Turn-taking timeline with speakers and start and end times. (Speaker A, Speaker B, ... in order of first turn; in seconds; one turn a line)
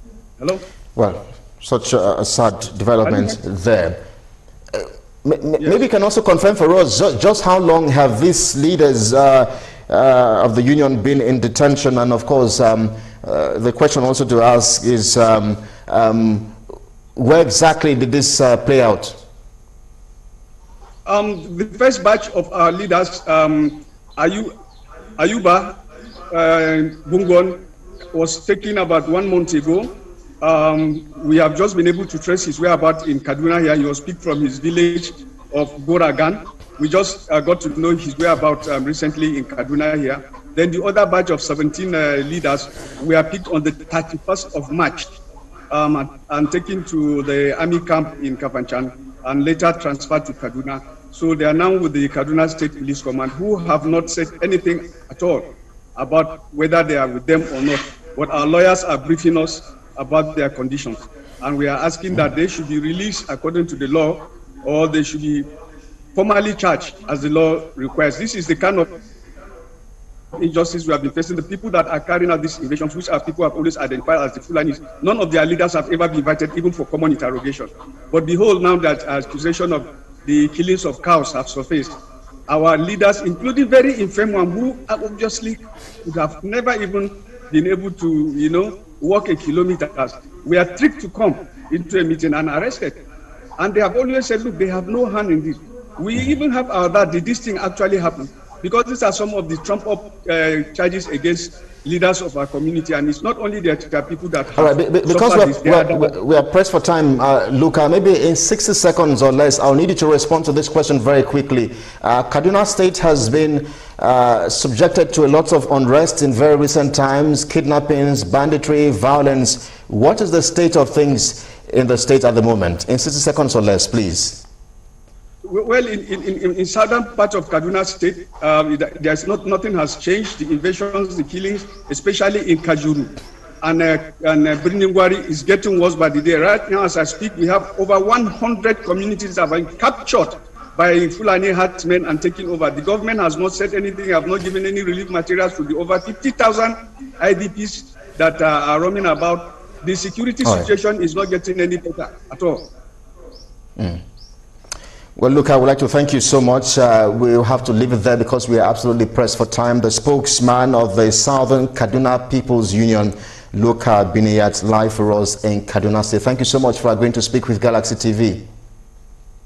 Speaker A: 1.0-4.0
Speaker B: 3.0-3.4
Speaker A: 4.7-16.5
Speaker A: 17.2-19.2
Speaker B: 21.1-24.5
Speaker B: 25.2-25.8
Speaker B: 26.3-27.6
Speaker B: 28.1-45.1
Speaker B: 45.7-65.5
Speaker B: 66.2-68.9
Speaker B: 70.3-82.0
Speaker B: 82.5-93.0
Speaker B: 93.6-106.2
Speaker A: 104.6-124.4
Speaker B: 125.4-152.7
Speaker A: 155.2-168.4